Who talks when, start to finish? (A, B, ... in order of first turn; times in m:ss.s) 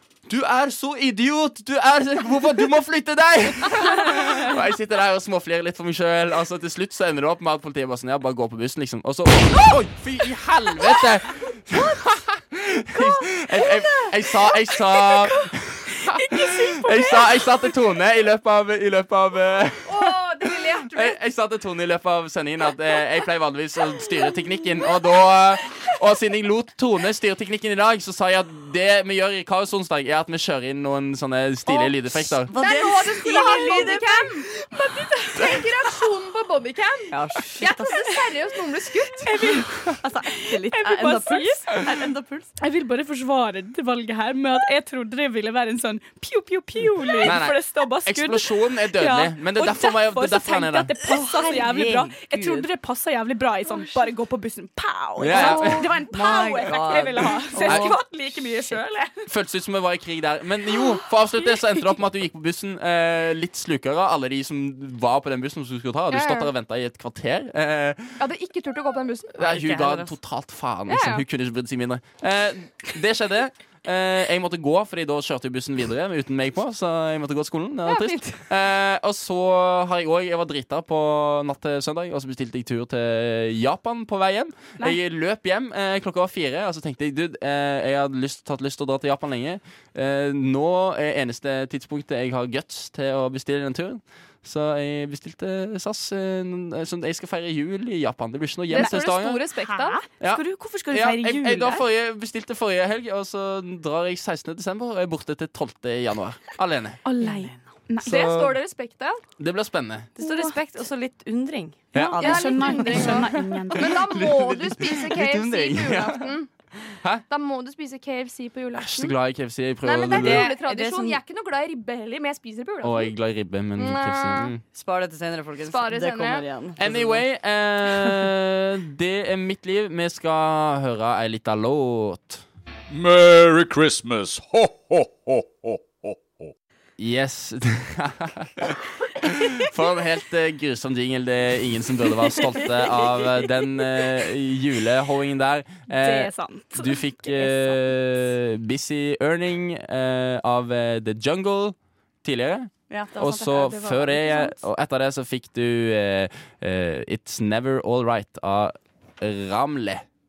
0:00.2-0:32.5 A
0:15.9-0:17.4 B
0:19.8-0:21.2 C
0:32.2-0:34.3 D
0:32.5-0:39.3 C
0:34.7-0:35.6 B
0:37.1-0:38.1 B
0:37.2-0:38.1 D
0:39.2-0:41.8 B
0:39.8-0:42.5 D
0:42.6-0:59.3 B
0:47.2-0:50.9 A
0:51.0-0:52.7 D
0:55.2-0:56.0 A
0:55.3-0:58.0 D
0:56.8-0:57.1 A
0:57.6-0:58.0 A
0:59.3-1:08.2 A
1:06.1-1:06.5 C
1:08.2-1:09.4 C
1:09.3-1:39.4 A
1:09.4-1:10.1 D
1:10.9-1:11.2 C
1:17.8-1:18.4 C
1:38.7-1:40.0 C
1:38.7-1:41.8 B
1:40.2-1:47.0 A
1:47.0-1:48.4 B
1:47.2-1:47.5 D
1:48.0-1:48.5 A
1:48.0-1:49.2 C
1:49.4-1:50.1 A
1:50.2-1:53.2 D
1:50.2-1:50.6 B
1:51.9-1:52.4 A
1:52.2-1:56.5 C
1:52.2-1:53.9 B
1:52.9-1:56.3 A
1:57.3-1:59.2 C
1:58.8-2:00.5 A
1:59.8-2:03.1 C
2:00.1-2:01.2 D
2:02.8-2:04.6 A
2:03.8-2:04.5 C
2:04.7-2:07.2 D
2:05.6-2:06.4 C
2:06.8-2:12.4 A
2:12.9-2:16.5 E
2:17.0-2:40.0 A
2:22.4-2:23.5 D
2:25.9-2:27.8 B
2:32.9-2:34.5 D